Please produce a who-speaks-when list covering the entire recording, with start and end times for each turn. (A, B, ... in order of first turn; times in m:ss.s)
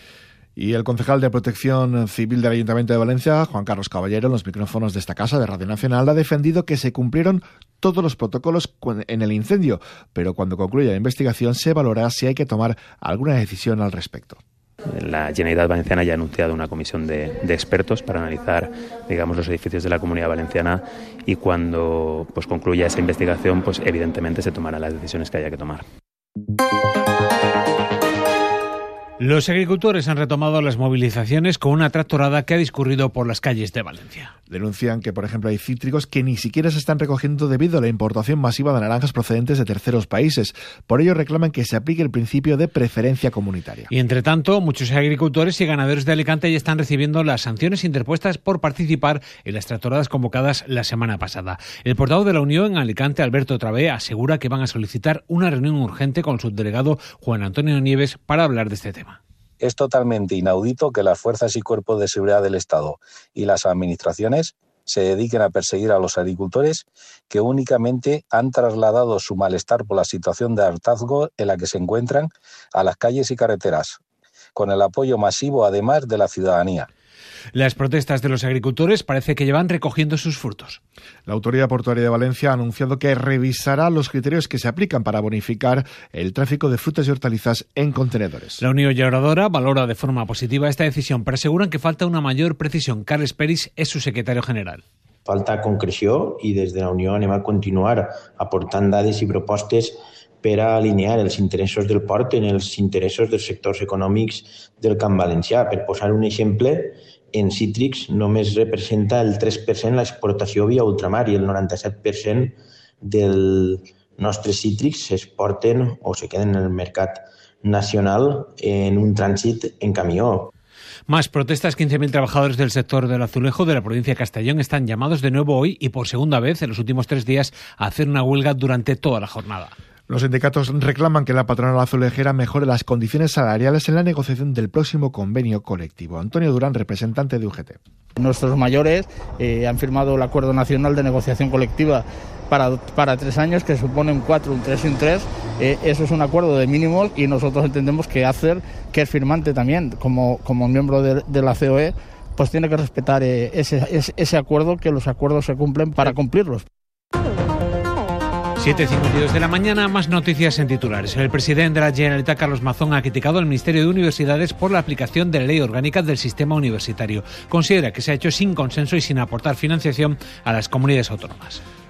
0:00.6-0:14.4 A
0:15.0-0:25.8 B
0:29.2-0:34.3 C
0:34.5-0:43.9 A
0:43.9-0:59.2 C
0:59.6-1:14.0 D
1:14.6-1:16.9 D
1:17.5-1:20.8 C
1:21.3-1:28.6 A
1:28.6-1:34.8 C
1:35.3-2:00.5 E
2:01.1-2:09.7 C
2:10.1-2:17.8 A
2:18.2-2:36.6 F
2:38.6-2:51.6 C